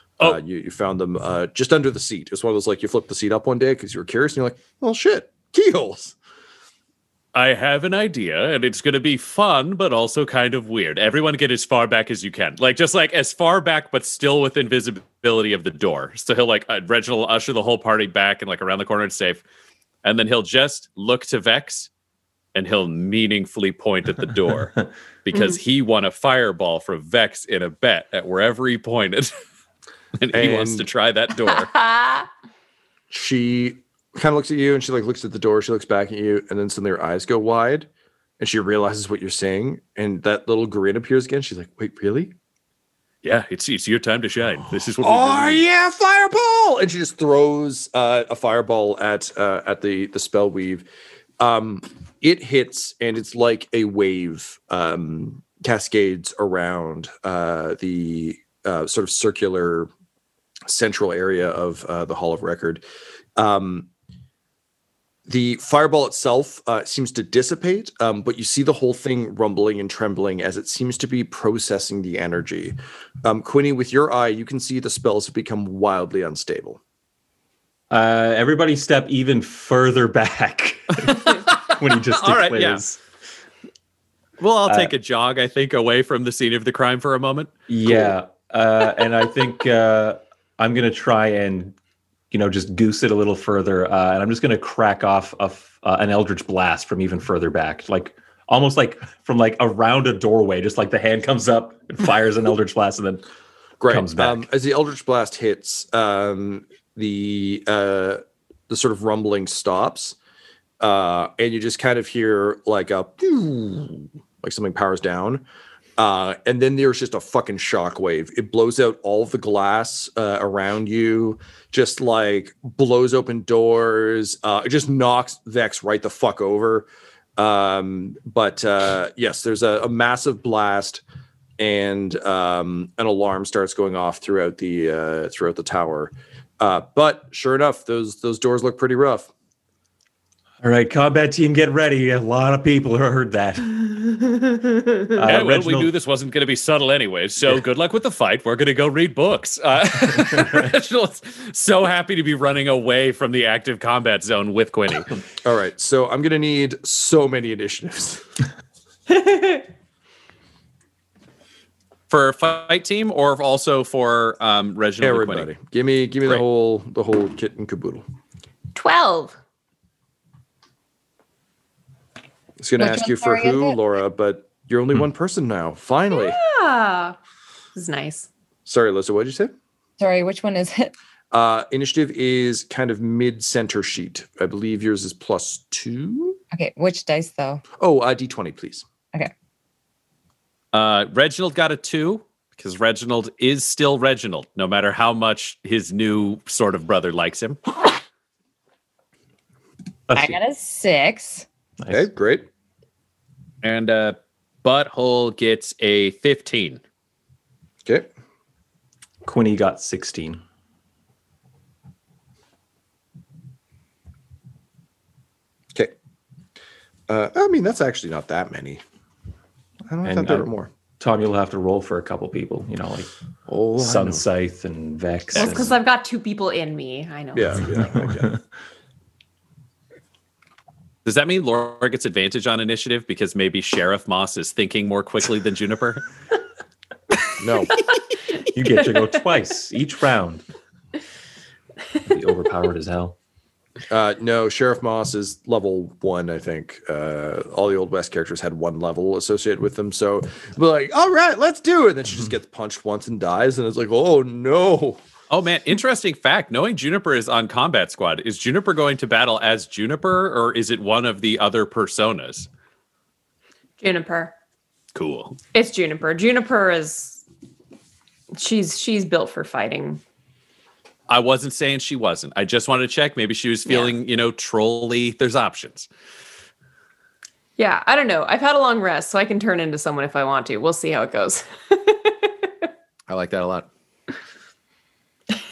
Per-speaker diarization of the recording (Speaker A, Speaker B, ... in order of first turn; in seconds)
Speaker A: 0.2-6.2, 30.3-30.9, 33.1-37.9, 38.4-42.3, 45.0-50.9, 51.4-59.9, 60.7-62.8, 63.4-63.9, 65.3-76.8, 103.8-110.2, 110.8-115.5, 116.0-126.9, 127.4-131.0, 131.6-139.3, 155.4-158.3, 165.0-168.0, 172.6-176.4, 178.7-179.5, 181.3-186.4, 187.8-188.9, 201.9-202.5, 217.1-218.8, 219.9-220.7, 223.5-224.2, 225.4-225.7, 227.3-228.4, 237.4-237.7, 243.9-255.0
Speaker B: 7.3-19.4, 20.0-21.9, 22.6-29.3, 30.2-31.7, 43.2-45.6, 81.0-82.8, 84.4-87.5, 145.2-155.1, 162.1-165.5, 190.7-197.6, 203.6-206.8, 231.1-236.0, 255.3-262.5, 264.9-265.4, 271.1-275.9, 283.1-283.7
Speaker C: 31.9-32.2, 168.8-169.4, 176.1-177.2, 177.8-178.3, 225.4-227.5, 263.8-264.3, 265.5-267.2, 268.3-270.0, 277.6-282.3
Speaker D: 77.9-83.0, 84.7-84.9, 87.7-91.8, 92.3-103.2, 103.9-104.5, 140.6-145.9, 200.1-200.4, 201.8-202.1, 209.2-210.4, 220.0-223.1, 223.8-225.8, 227.6-228.4, 238.4-240.4, 242.1-243.2
Speaker E: 172.8-173.8, 180.0-180.9, 186.5-187.6, 200.2-201.5